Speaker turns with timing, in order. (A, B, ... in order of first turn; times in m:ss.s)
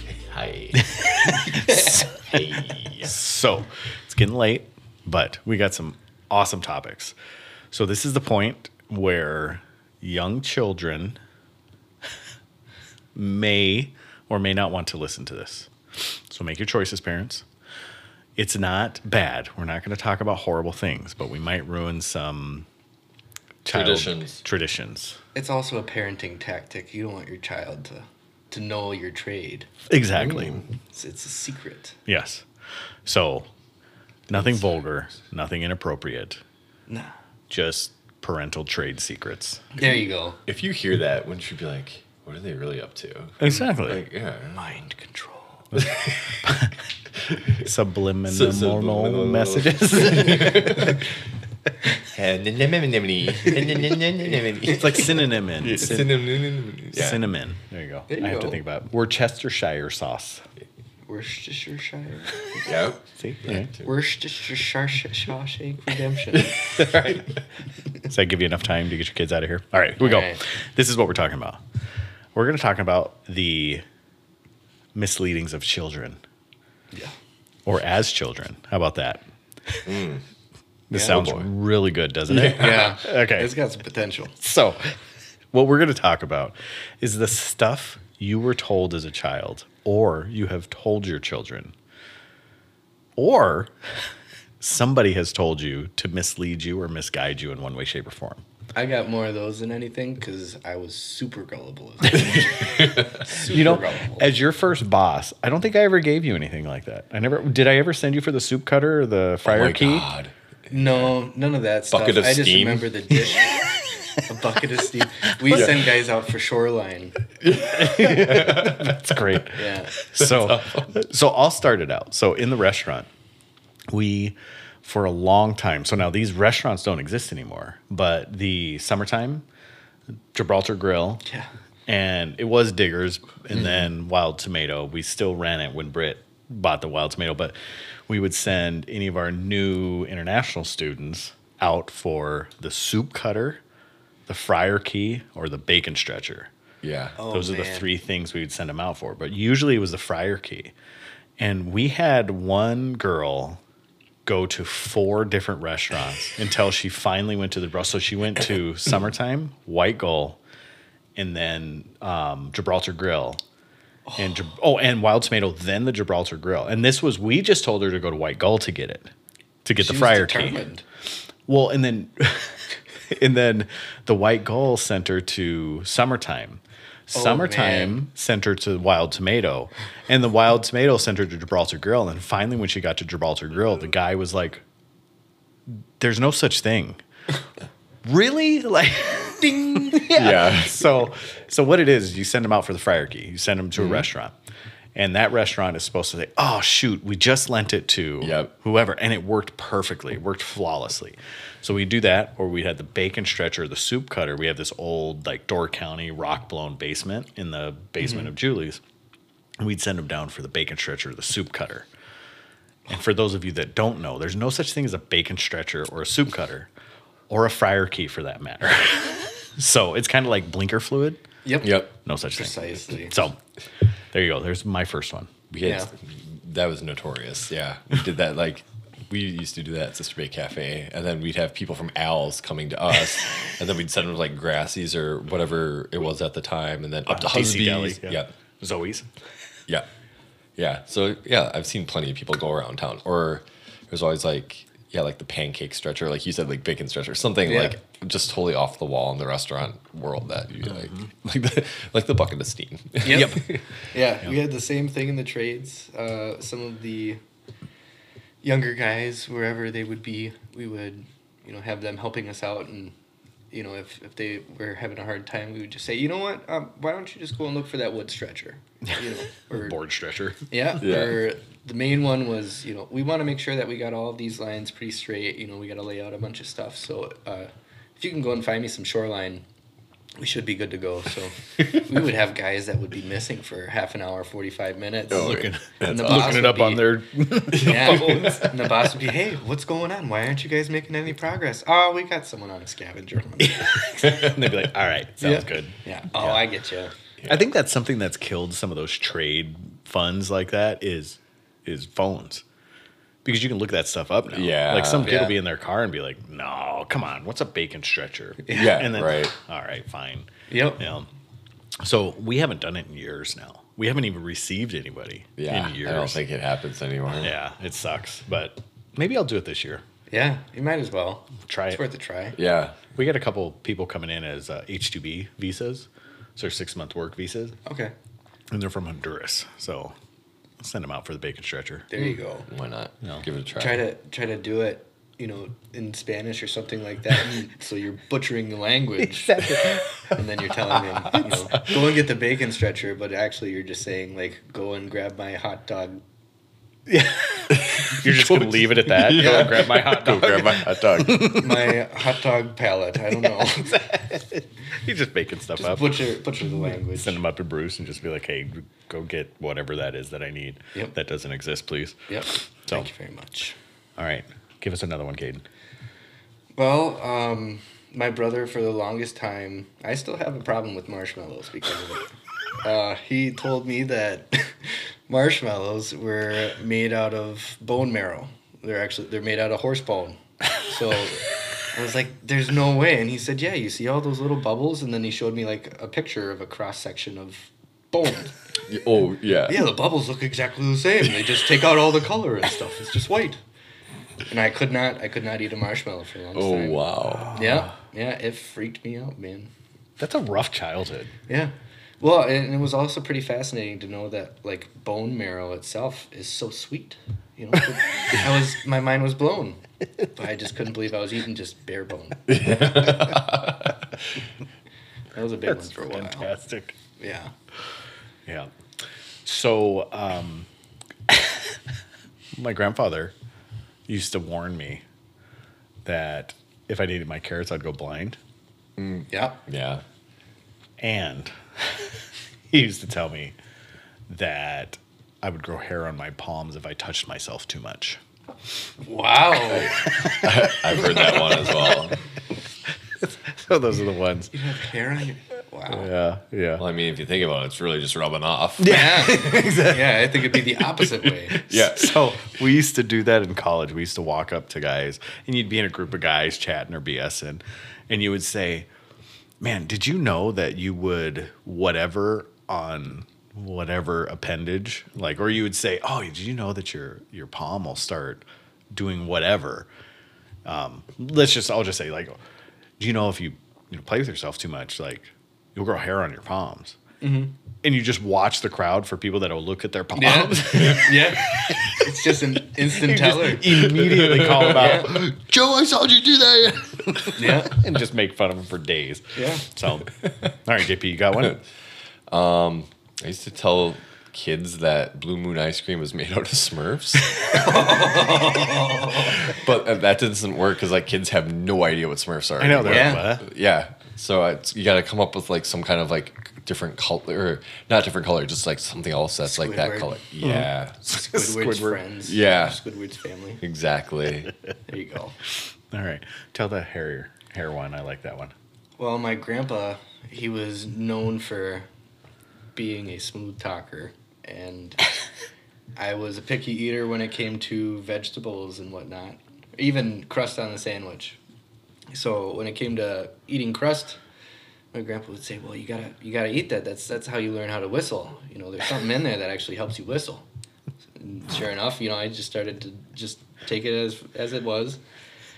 0:00.2-0:01.0 A
0:00.7-0:02.2 B
0:01.3-0:02.1 C
0:01.5-0:03.2 A
0:03.0-0:07.2 B
0:07.7-0:11.2 B
0:13.1-0:17.4 B
0:18.4-0:22.6 B
0:23.6-0:25.2 B
0:23.7-0:24.4 A
0:25.3-0:29.7 C
0:29.9-0:30.6 B
0:30.9-0:32.0 C
0:32.1-0:32.4 B
0:33.0-0:33.5 B
0:34.3-0:36.4 B
0:37.5-0:39.6 B
0:39.7-0:40.4 C
0:40.5-0:44.8 A
0:43.4-0:44.0 B
0:44.5-0:45.7 C
0:45.7-0:46.7 B
0:45.8-0:46.2 A
0:47.6-0:51.0 B
0:48.2-0:51.1 A
0:52.1-0:57.2 A
0:54.6-0:56.3 B
0:56.9-1:00.4 B
0:58.1-0:58.6 C
1:01.1-1:02.7 C
1:02.6-1:03.9 A
1:03.2-1:03.7 B
1:03.8-1:06.8 C
1:06.7-1:07.2 B
1:08.1-1:11.6 B
1:10.0-1:10.4 C
1:12.3-1:13.8 B
1:14.9-1:16.2 B
1:17.6-1:19.9 B
1:19.8-1:20.2 A
1:20.9-1:23.5 B
1:20.9-1:21.2 C
1:21.1-1:21.5 A
1:22.3-1:23.0 A
1:22.5-1:24.4 C
1:24.4-1:24.8 B
1:25.5-1:31.7 B
1:33.2-1:33.7 B
1:34.6-1:38.4 B
1:38.7-1:44.3 C
1:42.2-1:43.7 A
1:43.5-1:50.1 B
1:49.4-1:51.1 A
1:50.7-1:53.7 C
1:51.9-1:52.9 A
1:54.3-1:57.2 C
1:57.4-1:59.3 A
1:57.6-2:03.1 B
1:59.5-1:59.9 C
2:00.2-2:00.9 A
2:03.9-2:09.4 B
2:10.3-2:11.2 B
2:11.9-2:17.5 B
2:18.1-2:23.6 B
2:24.3-2:26.5 B
2:26.8-2:27.2 A
2:27.2-2:27.9 C
2:27.3-2:30.7 B
2:31.4-2:33.6 B
2:34.2-2:40.4 B
2:41.2-2:43.4 B
2:44.0-2:44.5 C
2:44.2-2:49.1 B
2:49.6-2:50.7 B
2:49.8-2:50.8 C
2:51.5-3:04.6 B
2:57.1-2:58.0 C
3:05.7-3:07.0 B
3:08.0-3:14.3 B
3:10.1-3:10.8 A
3:13.8-3:14.1 A
3:15.0-3:28.8 B
3:18.2-3:18.5 A
3:29.6-3:31.9 B
3:32.9-3:36.7 B
3:37.3-3:41.2 B
3:41.4-3:43.2 C
3:41.6-3:41.9 A
3:42.0-3:43.4 B
3:44.1-3:45.3 B
3:45.5-3:58.3 A
3:45.6-3:45.9 C
3:57.0-3:59.1 B
4:00.6-4:13.6 A
4:07.4-4:07.8 C
4:13.0-4:17.2 C
4:13.0-4:13.5 B
4:18.4-4:22.9 C
4:23.5-4:29.8 C
4:29.6-4:30.4 B
4:30.5-4:39.4 C
4:30.8-4:31.2 A
4:40.2-4:46.9 C
4:45.1-4:46.4 A
4:45.1-4:48.7 B
4:47.5-4:48.3 A
4:47.5-4:54.0 C
4:53.4-4:56.4 B
4:54.1-4:54.4 A
4:55.2-4:56.9 C
4:57.3-5:02.4 B
5:03.2-5:11.1 B
5:04.3-5:05.2 A
5:05.0-5:05.4 C
5:08.5-5:09.3 A
5:10.5-5:10.8 C
5:11.8-5:16.2 B
5:15.4-5:17.3 A
5:17.2-5:19.8 B
5:20.1-5:22.4 C
5:21.4-5:21.8 B
5:22.4-5:22.9 A
5:22.9-5:27.6 B
5:27.6-5:27.9 C
5:28.5-5:29.9 B
5:30.6-5:32.0 B
5:31.9-5:32.5 C
5:32.5-5:33.8 A
5:33.5-5:39.6 C
5:39.0-5:40.2 B
5:40.1-5:46.0 C
5:46.9-5:51.5 B
5:47.5-5:51.7 A
5:49.2-5:49.6 C
5:51.2-5:53.9 C
5:53.3-5:56.0 B
5:55.6-5:57.2 C
5:56.8-6:02.9 B
6:02.1-6:03.6 C
6:04.0-6:05.4 B
6:06.6-6:28.4 C
6:28.7-6:29.8 A
6:29.5-6:33.4 C
6:34.3-6:39.5 C
6:36.3-6:37.4 A
6:37.3-6:37.6 B
6:40.0-6:41.1 B
6:41.3-6:49.6 C
6:50.1-6:52.5 C
6:52.3-6:53.8 A
6:55.1-6:56.3 C
6:55.4-6:56.8 B
6:57.0-6:57.3 C
6:59.2-7:00.5 B
7:01.1-7:01.5 B
7:02.4-7:03.1 B
7:03.9-7:04.8 B
7:05.8-7:08.2 B
7:08.8-7:09.8 A
7:09.1-7:09.4 C
7:10.8-7:12.0 B
7:12.5-7:13.3 B
7:14.1-7:18.0 B
7:18.8-7:19.8 C
7:19.5-7:22.0 A
7:19.8-7:21.9 B
7:23.0-7:24.3 B
7:24.3-7:25.9 C
7:25.7-7:26.6 B
7:26.6-7:28.8 A
7:28.6-7:38.7 B
7:28.6-7:31.4 C
7:31.4-7:32.2 A
7:39.4-7:49.7 B
7:50.4-7:52.2 B
7:52.8-7:56.8 B
7:57.0-7:57.3 C
7:57.6-8:01.7 B
7:59.9-8:03.6 C
8:02.8-8:05.2 B
8:03.5-8:06.6 A
8:04.5-8:05.0 C
8:06.6-8:09.9 B
8:07.1-8:07.6 C
8:09.2-8:09.5 C
8:10.4-8:11.4 B
8:12.1-8:17.8 A
8:17.3-8:19.3 C
8:18.9-8:30.8 A
8:22.4-8:23.2 B
8:22.6-8:23.1 C
8:29.2-8:30.0 C
8:30.2-8:31.8 B
8:30.8-8:33.4 C
8:32.0-8:32.6 A
8:33.4-8:34.3 A
8:34.7-8:35.2 C
8:35.7-8:38.3 B
8:38.8-8:41.6 C
8:42.5-8:44.8 C
8:45.8-8:51.2 C
8:51.9-8:54.0 C
8:54.7-9:00.2 C
9:01.0-9:04.8 C